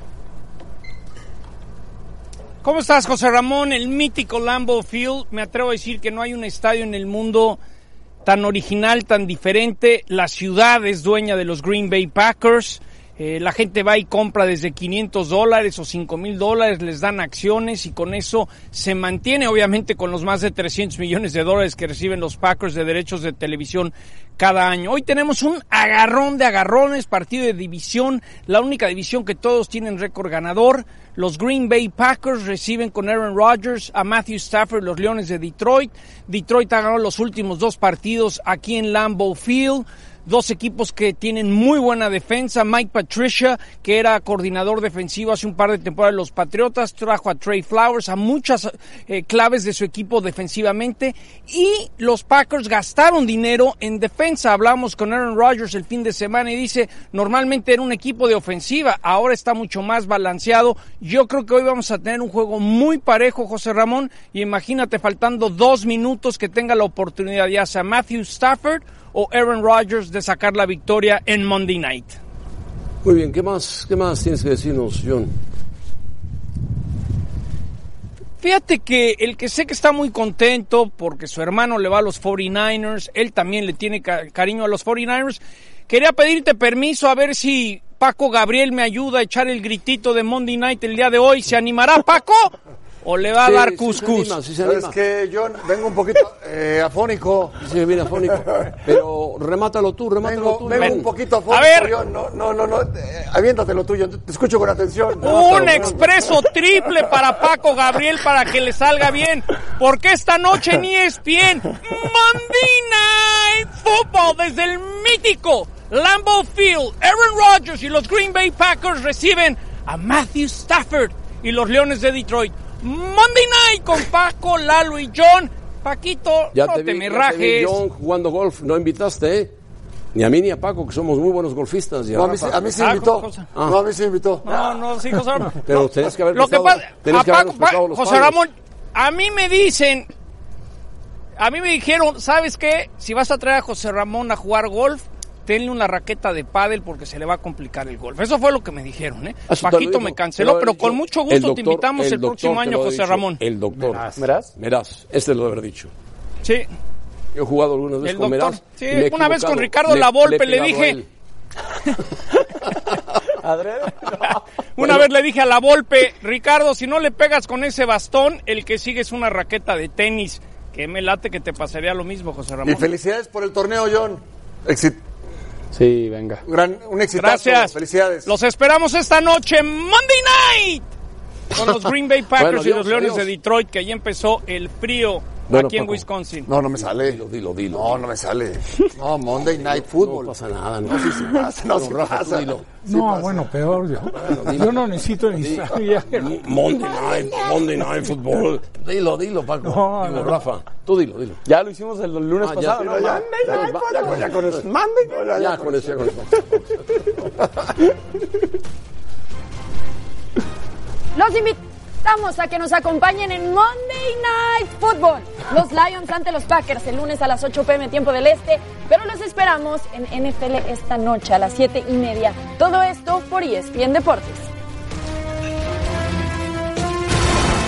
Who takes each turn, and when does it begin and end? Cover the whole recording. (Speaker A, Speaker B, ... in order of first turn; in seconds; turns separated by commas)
Speaker A: 2.6-7.6, Speaker A: 8.2-72.2, Speaker B: 73.0-75.3, Speaker A: 78.4-94.4, Speaker B: 93.4-95.0, Speaker C: 94.6-97.5, Speaker B: 97.6-101.1, Speaker C: 100.2-106.1, Speaker A: 100.8-101.9, Speaker A: 105.2-127.8, Speaker B: 126.5-129.5, Speaker B: 130.1-132.6, Speaker C: 132.1-134.5, Speaker A: 132.7-133.5, Speaker A: 134.4-135.7, Speaker B: 135.6-138.4, Speaker A: 136.3-140.1, Speaker A: 141.4-153.4, Speaker B: 149.5-155.9, Speaker D: 153.8-154.1, Speaker E: 154.1-154.5, Speaker B: 157.3-161.1, Speaker A: 158.0-161.0, Speaker E: 163.4-164.4, Speaker A: 164.8-172.9, Speaker B: 164.8-165.1, Speaker C: 172.6-175.0, Speaker E: 175.7-176.4, Speaker C: 176.4-178.3, Speaker A: 177.2-180.9, Speaker A: 181.5-186.5, Speaker B: 182.3-183.3, Speaker B: 185.5-186.1, Speaker C: 186.4-187.2, Speaker B: 186.8-188.0, Speaker C: 187.7-190.3, Speaker B: 189.4-192.7, Speaker C: 190.8-193.4, Speaker D: 192.8-196.3, Speaker B: 194.2-201.4, Speaker D: 199.6-200.4, Speaker E: 201.4-203.5, Speaker B: 202.4-204.7, Speaker C: 202.8-206.1, Speaker B: 205.3-206.8, Speaker F: 211.1-224.5